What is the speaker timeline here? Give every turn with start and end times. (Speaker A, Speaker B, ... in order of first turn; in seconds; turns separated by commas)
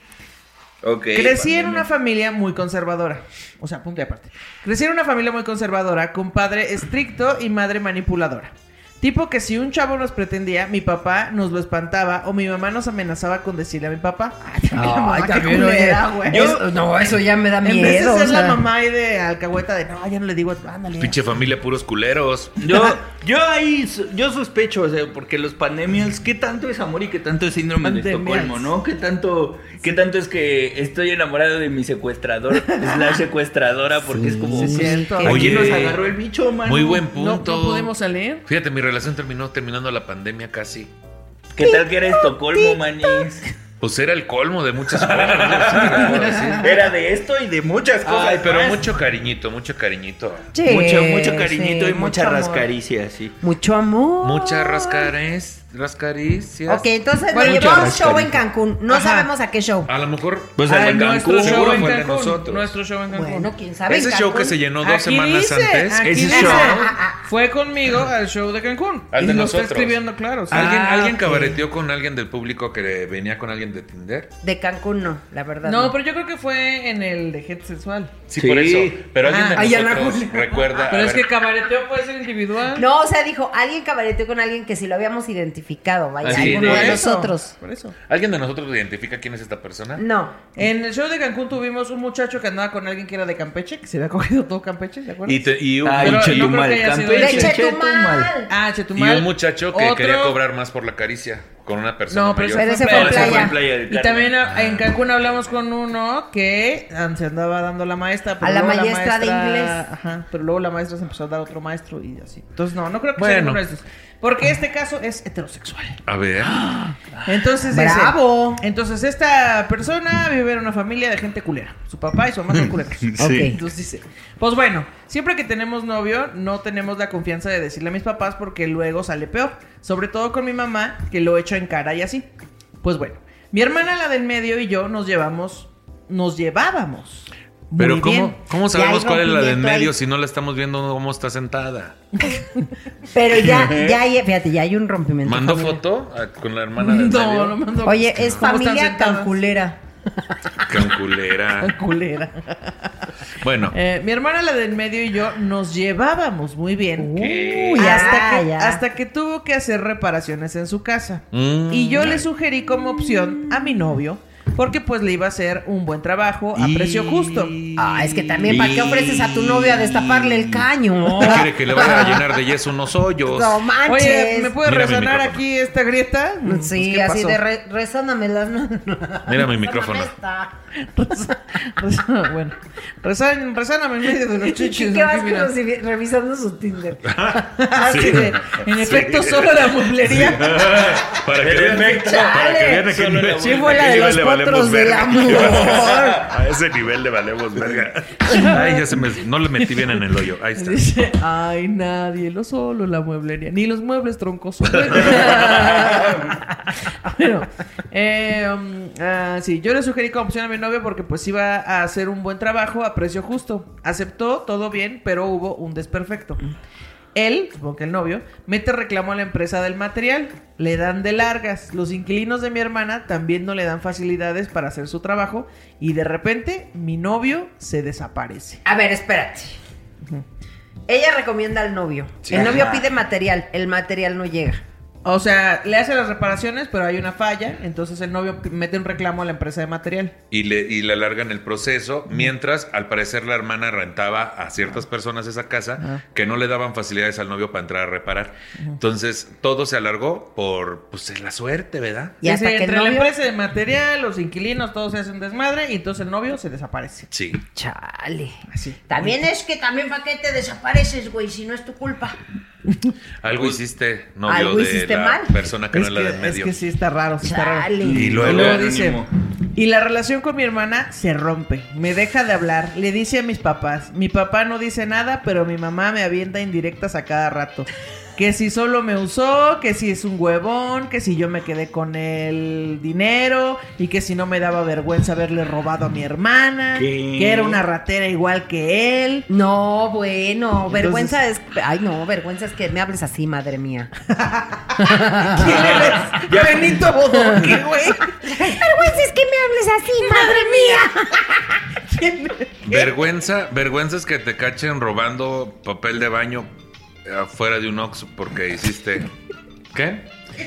Speaker A: 0.8-1.9, Speaker B: 1.1-16.6, Speaker C: 14.6-18.6, Speaker A: 16.3-16.6, Speaker B: 17.6-21.2, Speaker D: 21.0-22.7, Speaker A: 22.6-37.0, Speaker B: 27.8-28.7, Speaker B: 32.7-33.2, Speaker C: 34.1-35.8, Speaker B: 34.5-36.0, Speaker D: 35.2-36.0, Speaker D: 36.6-37.9, Speaker B: 37.1-38.4, Speaker D: 38.5-40.9, Speaker A: 41.5-43.4, Speaker C: 41.6-43.3, Speaker D: 43.8-46.8, Speaker A: 44.9-48.9, Speaker B: 46.0-46.7, Speaker D: 48.0-50.5, Speaker C: 50.5-52.7, Speaker A: 50.6-53.4, Speaker C: 53.4-55.1, Speaker D: 54.2-56.9, Speaker C: 56.7-59.9, Speaker B: 57.3-58.1, Speaker A: 57.4-58.4, Speaker B: 58.9-59.3, Speaker D: 59.9-60.6, Speaker A: 60.6-62.0, Speaker B: 60.7-63.5, Speaker D: 61.3-62.7, Speaker C: 63.1-64.5, Speaker D: 63.9-66.4, Speaker B: 64.8-71.3, Speaker A: 66.0-66.9, Speaker C: 66.3-67.2, Speaker D: 69.1-70.0, Speaker D: 70.5-74.3, Speaker C: 70.6-71.4, Speaker C: 74.4-76.0, Speaker B: 75.7-78.2, Speaker D: 78.3-81.3, Speaker A: 78.4-79.0, Speaker B: 79.2-79.6, Speaker C: 79.5-80.9, Speaker B: 80.9-82.9, Speaker C: 82.7-87.5, Speaker A: 86.2-87.0, Speaker B: 86.2-88.0, Speaker D: 88.1-90.0, Speaker C: 90.0-90.4, Speaker B: 90.6-97.6, Speaker D: 95.2-96.7, Speaker A: 95.8-98.3, Speaker C: 97.1-98.5, Speaker B: 98.5-100.4, Speaker D: 99.0-102.9, Speaker B: 102.1-116.0, Speaker C: 102.5-103.6, Speaker A: 102.9-104.4, Speaker D: 104.4-104.9, Speaker C: 108.4-109.8, Speaker D: 113.2-113.6, Speaker D: 116.1-116.6, Speaker C: 116.4-117.0, Speaker B: 117.2-132.3, Speaker C: 117.7-118.6, Speaker A: 123.0-123.5, Speaker C: 123.2-123.6, Speaker B: 132.8-138.4, Speaker D: 137.8-142.0, Speaker C: 138.7-139.9, Speaker B: 142.2-142.7, Speaker C: 143.1-145.8, Speaker A: 143.3-144.0, Speaker D: 145.2-147.6, Speaker B: 146.8-149.4, Speaker C: 147.8-149.8, Speaker D: 150.7-151.8, Speaker B: 151.6-153.0, Speaker D: 153.4-153.8, Speaker B: 153.7-168.5, Speaker C: 157.0-158.8, Speaker A: 157.2-158.2, Speaker D: 161.3-162.3, Speaker C: 163.1-163.7, Speaker A: 166.6-167.5, Speaker C: 167.8-172.2, Speaker A: 168.5-170.7, Speaker B: 171.1-172.2, Speaker D: 171.2-173.6, Speaker C: 173.3-174.6, Speaker B: 173.9-177.4, Speaker D: 174.6-175.4, Speaker C: 176.4-180.5, Speaker D: 179.3-180.1, Speaker B: 180.8-185.5, Speaker C: 184.4-187.4, Speaker D: 187.1-189.6, Speaker B: 187.6-190.9, Speaker A: 190.3-194.0, Speaker D: 190.3-200.9, Speaker C: 191.9-196.1, Speaker A: 195.3-196.3, Speaker B: 198.3-199.1, Speaker B: 199.6-199.9, Speaker B: 200.6-216.4, Speaker D: 204.9-205.3, Speaker A: 205.3-206.4, Speaker B: 217.2-228.6, Speaker C: 228.7-229.6, Speaker C: 230.9-234.6, Speaker D: 232.2-232.8, Speaker B: 235.0-240.2, Speaker D: 240.3-252.2, Speaker C: 252.2-253.1, Speaker B: 252.2-257.1, Speaker D: 257.1-257.4, Speaker C: 257.5-262.2, Speaker B: 258.5-259.1, Speaker D: 263.2-266.5, Speaker C: 264.3-265.4, Speaker B: 265.7-289.3, Speaker C: 267.2-268.2, Speaker A: 267.8-269.1, Speaker D: 267.9-268.7, Speaker A: 286.8-287.6, Speaker C: 289.3-293.9, Speaker B: 290.7-291.2, Speaker B: 294.1-298.6, Speaker C: 294.8-295.9, Speaker A: 295.4-297.6, Speaker C: 298.2-301.2, Speaker B: 300.0-302.9, Speaker D: 302.6-306.5, Speaker D: 307.1-309.1, Speaker D: 309.7-310.1